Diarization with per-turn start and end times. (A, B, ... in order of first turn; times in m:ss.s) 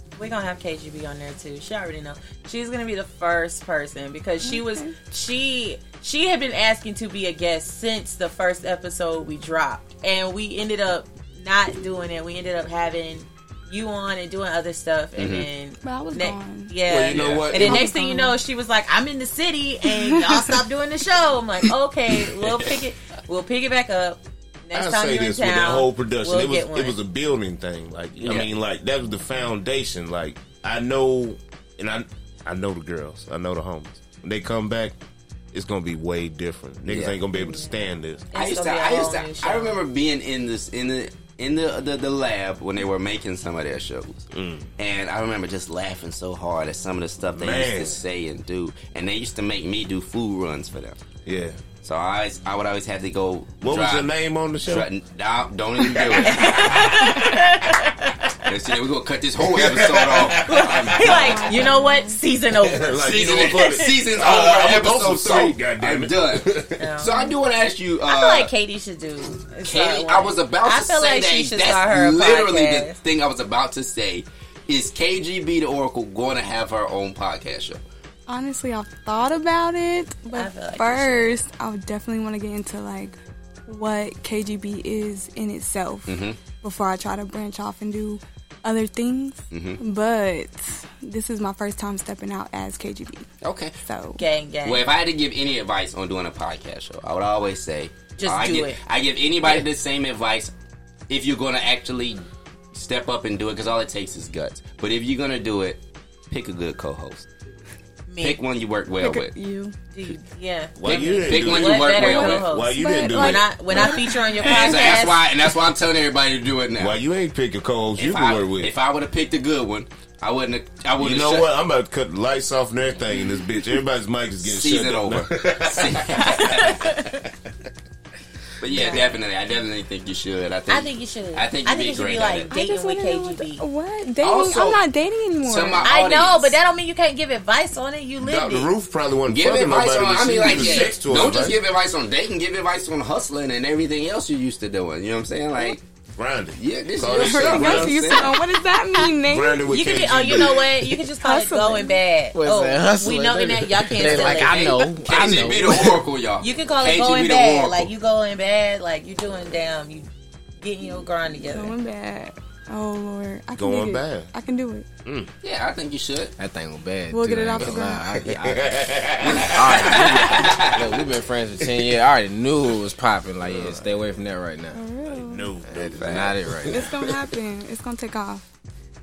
0:00.2-0:27.0 A
0:04.4-0:04.9 B
0:15.2-0:15.5 C
0:15.8-0:16.7 B
0:16.9-0:17.9 D
0:17.1-0:17.5 C
0:17.6-0:18.4 B
0:20.0-0:20.2 B
0:22.4-0:22.8 C
0:24.7-0:35.0 D
0:28.2-0:28.5 C
0:35.5-0:38.3 D
0:36.9-0:37.2 C
0:37.4-0:37.7 A
0:38.3-0:39.8 A
0:38.3-0:51.0 C
0:44.3-0:44.7 D
0:47.4-0:48.0 D
0:51.2-0:51.6 D
0:51.8-0:54.1 C
0:53.6-0:54.9 D
0:54.6-0:57.0 C
0:55.9-0:57.0 D
0:56.2-0:58.2 A
0:58.4-1:01.7 C
0:59.4-1:01.4 D
1:00.4-1:03.8 A
1:01.0-1:02.2 B
1:02.5-1:07.0 D
1:02.9-1:08.5 C
1:06.8-1:07.3 A
1:08.0-1:13.0 A
1:09.6-1:17.8 C
1:18.3-1:23.2 B
1:20.3-1:21.4 A
1:23.7-1:33.3 B
1:26.1-1:26.4 C
1:29.5-1:29.8 C
1:33.4-1:33.8 C
1:33.8-1:34.2 B
1:34.2-1:34.9 A
1:34.6-1:40.5 C
1:38.2-1:38.8 A
1:41.1-1:47.3 C
1:48.1-1:48.4 A
1:48.2-1:49.3 C
1:49.0-1:49.7 B
1:49.9-1:55.3 A
1:50.8-1:53.6 D
1:50.8-1:52.5 C
1:52.0-1:54.9 B
1:54.4-1:57.0 C
1:56.8-1:58.7 D
1:58.0-2:01.5 C
2:01.0-2:06.6 D
2:04.4-2:07.1 C
2:06.3-2:07.2 A
2:08.6-2:12.5 C
2:08.7-2:09.1 A
2:10.7-2:13.6 A
2:12.5-2:15.9 B
2:14.2-2:14.8 C
2:15.4-2:16.6 C
2:15.8-2:18.7 A
2:18.2-2:21.6 D
2:19.3-2:25.8 C
2:20.5-2:20.9 A
2:26.2-2:28.0 D
2:26.6-2:28.4 C
2:27.1-2:29.6 B
2:29.2-2:30.9 D
2:29.7-2:35.2 A
2:31.2-2:32.0 B
2:32.3-2:36.0 E
2:34.0-2:37.9 C
2:36.4-2:40.1 A
2:40.6-2:41.7 A
2:41.5-2:44.9 B
2:43.6-2:44.3 D
2:45.0-2:45.3 D
2:45.4-2:46.3 C
2:46.4-2:54.8 E
2:47.1-2:48.1 B
2:47.6-2:50.3 D
2:49.2-2:51.0 C
2:53.4-2:54.0 D
2:54.7-2:55.5 B
2:55.1-2:57.1 D
2:55.7-2:56.9 E
2:56.0-2:56.4 C
2:56.7-2:58.4 B